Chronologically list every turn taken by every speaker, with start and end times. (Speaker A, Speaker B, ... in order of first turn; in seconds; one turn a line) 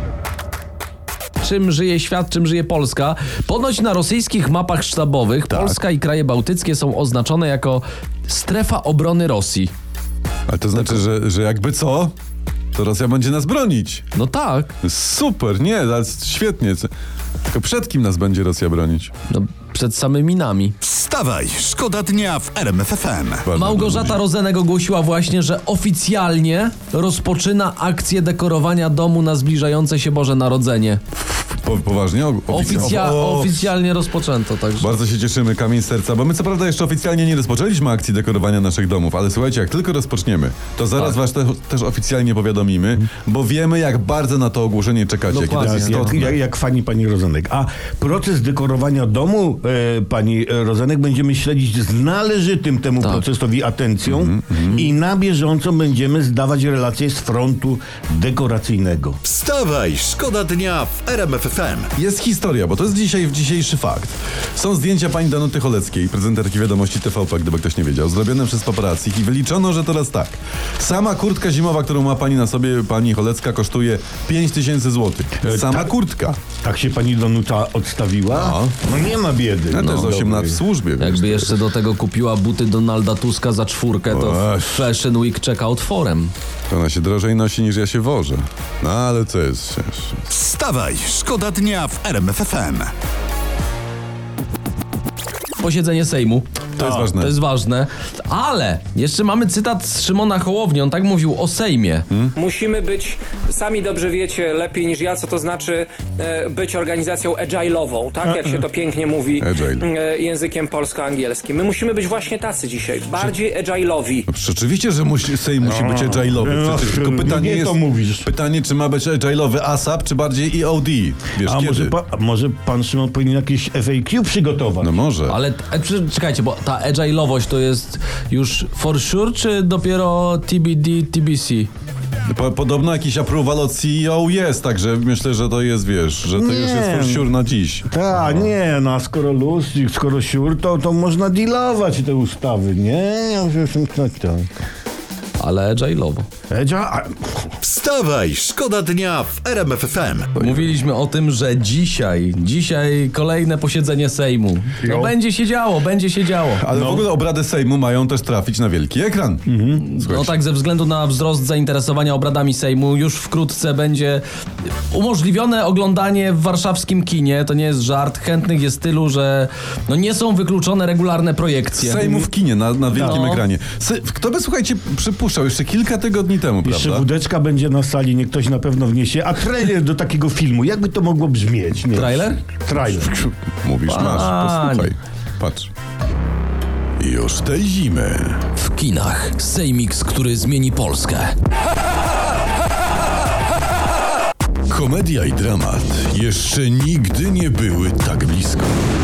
Speaker A: 1.4-9.7
Speaker B: 5.5-5.8
Speaker B: 10.5-12.1
Speaker B: 12.7-14.1
Speaker A: 14.1-14.7
Speaker B: 14.8-16.9
Speaker B: 17.5-19.1
Speaker A: 19.3-20.7
Speaker C: 20.8-23.4
Speaker B: 23.4-24.2
Speaker A: 23.5-31.0
Speaker B: 31.2-33.7
Speaker A: 32.5-34.9
Speaker B: 34.8-46.4
Speaker A: 45.3-46.1
Speaker D: 45.5-59.2
Speaker B: 54.1-54.8
Speaker C: 59.3-61.9
Speaker B: 62.0-76.4
Speaker D: 75.4-80.6
Speaker B: 78.3-78.7
Speaker B: 79.7-81.5
Speaker A: 79.8-80.1
Speaker A: 81.0-86.3
Speaker B: 84.1-84.9
Speaker B: 86.7-90.2
Speaker C: 90.3-92.9
Speaker A: 95.6-102.1
Speaker B: 96.8-97.4
Speaker D: 96.8-97.0
Speaker E: 102.3-114.3
Speaker B: 109.4-109.8
Speaker B: 114.3-121.9
Speaker D: 115.6-118.3
Speaker D: 121.4-124.9
Speaker B: 124.8-125.4
Speaker A: 125.3-131.7
Speaker B: 132.2-138.5
Speaker D: 136.3-137.3
Speaker D: 137.9-144.5
Speaker A: 145.4-146.3
Speaker D: 146.5-147.5
Speaker C: 147.6-150.3
Speaker A: 150.3-156.6
Speaker D: 154.8-155.1
Speaker B: 156.6-160.3
Speaker D: 156.7-157.1
Speaker D: 159.5-159.8
Speaker A: 159.8-164.2
Speaker A: 164.9-172.3
Speaker B: 171.8-177.1
Speaker A: 172.9-173.4
Speaker D: 172.9-173.2
Speaker D: 176.6-183.2
Speaker A: 181.9-182.4
Speaker B: 183.0-185.7
Speaker A: 183.9-184.9
Speaker B: 187.0-188.4
Speaker A: 188.5-191.3
Speaker B: 194.7-198.8